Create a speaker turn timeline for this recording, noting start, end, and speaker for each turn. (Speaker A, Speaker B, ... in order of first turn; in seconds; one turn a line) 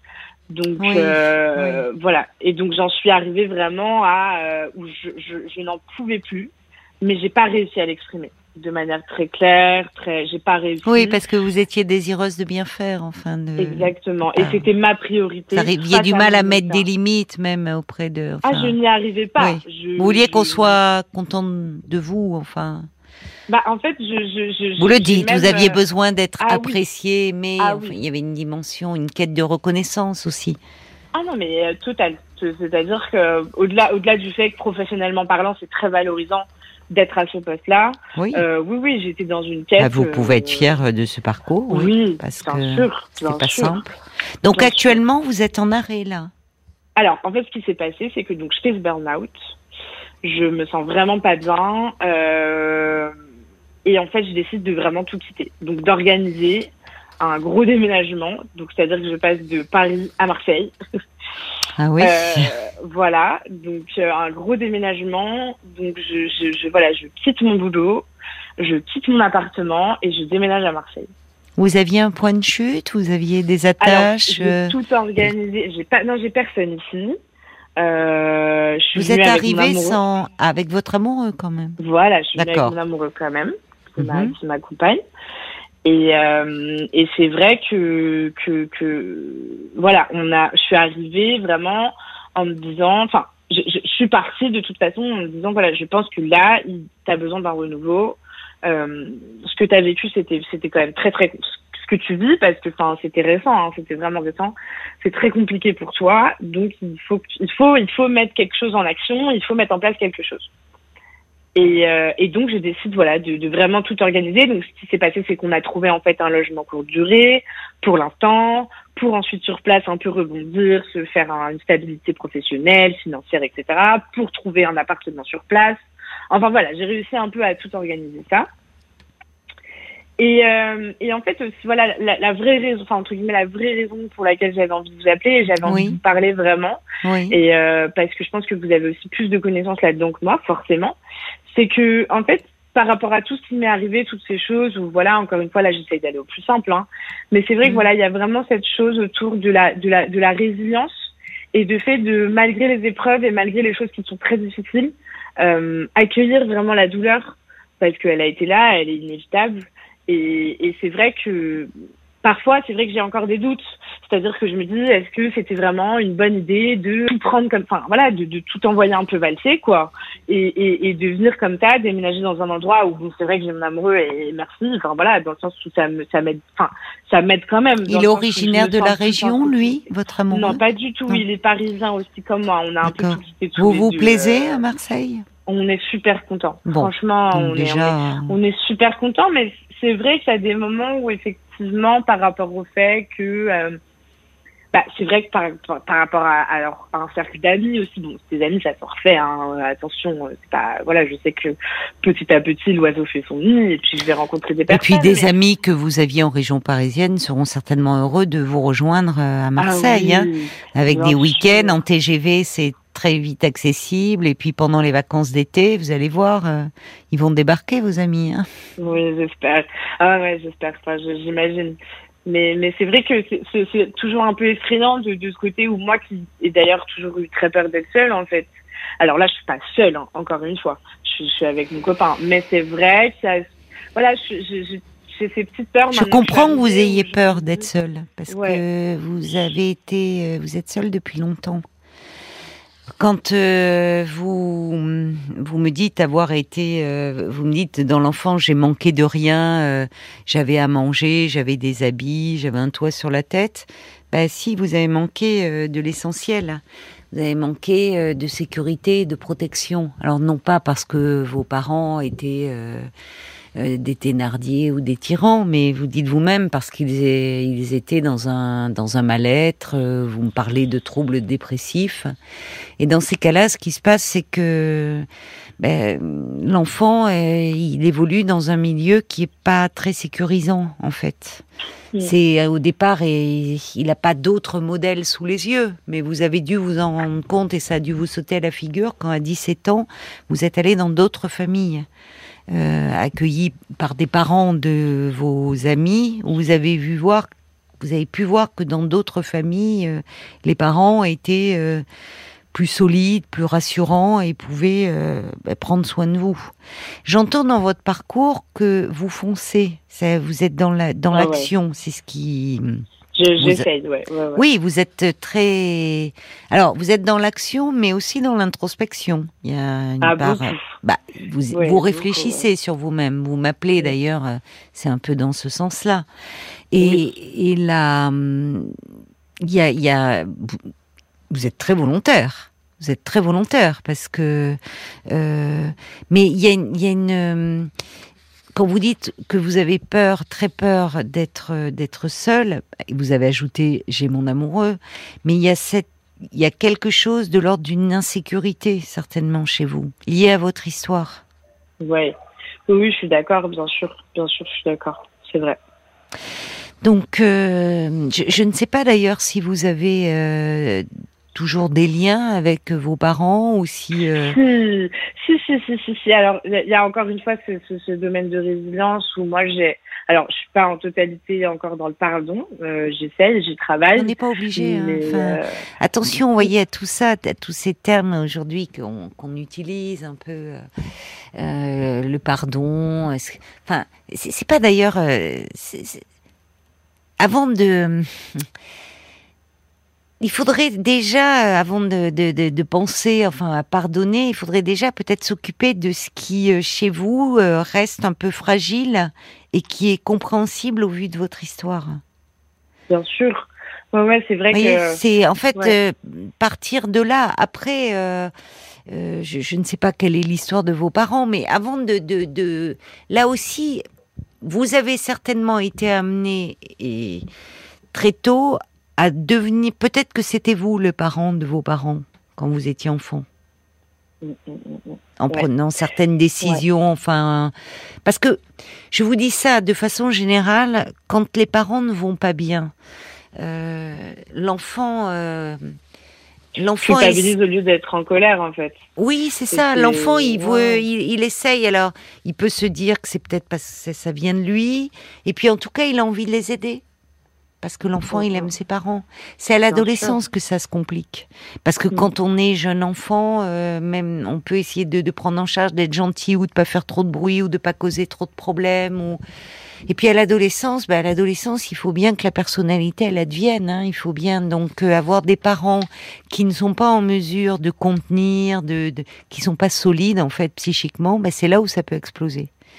Speaker A: 0.5-11.2
Speaker B: 0.8-1.8
Speaker B: 10.8-14.7
Speaker A: 13.6-16.9
Speaker B: 15.5-18.8
Speaker A: 18.4-20.8
Speaker B: 19.4-22.9
Speaker A: 23.5-25.8
Speaker B: 24.8-30.6
Speaker A: 26.4-26.8
Speaker A: 27.6-27.9
Speaker A: 31.1-40.8
Speaker B: 38.2-38.5
Speaker B: 39.8-46.3
Speaker A: 41.7-43.8
Speaker A: 44.5-45.0
Speaker A: 47.0-49.4
Speaker A: 50.2-53.1
Speaker A: 53.9-60.7
Speaker B: 61.8-62.5
Speaker A: 62.0-68.1
Speaker A: 68.6-71.1
Speaker B: 71.6-74.8
Speaker A: 73.8-77.2
Speaker A: 77.8-80.0
Speaker B: 79.0-81.8
Speaker A: 81.8-85.0
Speaker B: 82.3-82.8
Speaker B: 84.0-84.3
Speaker A: 85.8-110.5
Speaker A: 111.5-128.5
Speaker A: 130.2-161.7
Speaker B: 135.7-136.0
Speaker B: 137.0-137.4
Speaker A: 162.2-184.6
Speaker B: 177.9-181.2
Speaker B: 182.8-185.2
Speaker A: 185.5-193.8
Speaker B: 186.7-188.3
Speaker A: 194.7-205.3
Speaker B: 204.7-218.5
Speaker A: 209.6-211.8
Speaker A: 218.8-233.4
Speaker A: 233.9-237.7
Speaker B: 235.9-241.6
Speaker A: 238.3-238.6
Speaker B: 243.0-256.6
Speaker B: 257.1-262.9
Speaker B: 263.6-272.1
Speaker B: 272.8-275.1
Speaker B: 275.6-281.4
Speaker B: 282.0-291.9
Speaker B: 292.5-297.3
Speaker B: 297.8-301.9
Speaker B: 302.5-306.5
Speaker B: 307.1-312.8
Speaker A: 311.1-311.5
Speaker A: 313.1-314.4
Speaker B: 313.4-313.7
Speaker B: 314.4-326.1
Speaker A: 320.0-320.6
Speaker A: 321.5-322.5
Speaker B: 326.7-328.8
Speaker B: 329.4-330.7
Speaker B: 331.3-337.7
Speaker B: 338.6-351.2
Speaker A: 351.8-352.1
Speaker A: 352.7-355.6
Speaker B: 356.8-364.4
Speaker A: 364.2-375.5
Speaker B: 374.0-380.7
Speaker B: 381.4-386.0
Speaker B: 387.2-388.5
Speaker B: 390.2-402.0
Speaker A: 402.9-405.0
Speaker B: 404.5-408.3
Speaker B: 408.9-413.8
Speaker B: 414.4-417.2
Speaker B: 417.9-423.3
Speaker A: 424.2-425.5
Speaker B: 425.2-427.5
Speaker B: 428.1-428.4
Speaker B: 428.9-432.7
Speaker B: 433.4-435.8
Speaker B: 436.6-437.3
Speaker A: 436.8-438.8
Speaker B: 439.0-446.8
Speaker A: 439.5-440.8
Speaker B: 447.6-459.2
Speaker A: 448.1-448.5
Speaker A: 449.7-450.2
Speaker B: 459.9-472.5